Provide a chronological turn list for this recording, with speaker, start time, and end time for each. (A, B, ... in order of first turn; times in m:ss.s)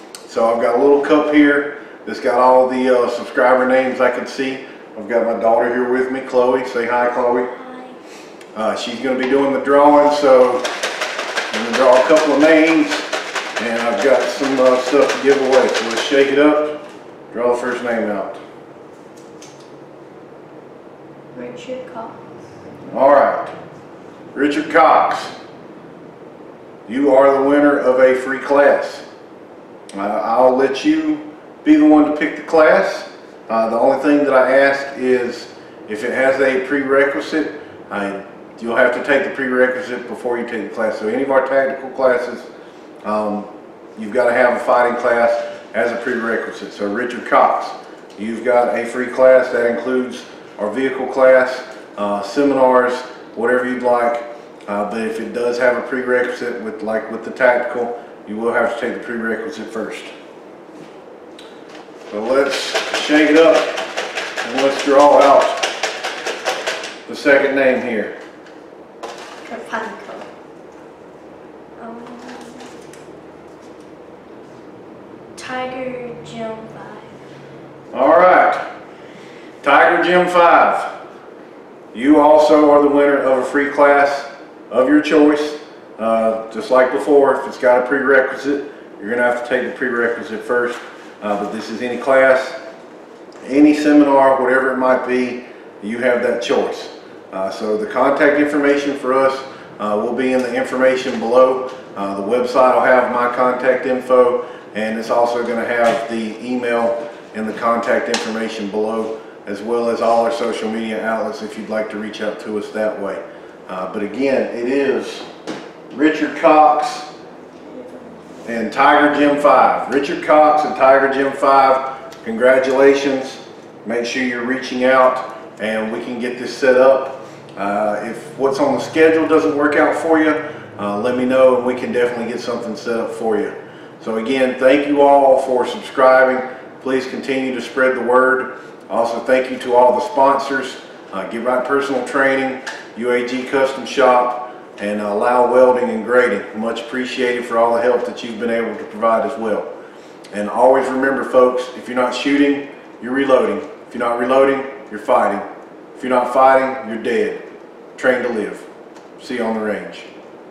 0:00.3-0:07.5 A
0:07.5-0:08.0 B
0:08.6-0:10.7 A
0:11.5-0:18.4 A
0:21.4-0:22.2 B
0:22.9-0:23.5 A
0:24.3-0:25.4 A
0:26.9-0:29.0 A
0:29.9-0:42.5 A
0:43.0-1:00.1 A
1:02.1-1:03.9 A
1:04.4-1:05.7 A
1:07.1-1:08.2 A
1:09.4-1:10.3 B
1:11.8-1:12.7 B
1:15.4-1:17.2 B
1:17.9-1:18.6 A
1:19.6-1:20.9 A
1:21.9-1:32.6 A
1:33.4-1:55.3 A
1:55.9-1:57.1 A
1:58.4-2:29.7 A
2:30.3-2:37.4 A
2:38.0-2:38.7 A
2:39.2-2:40.1 A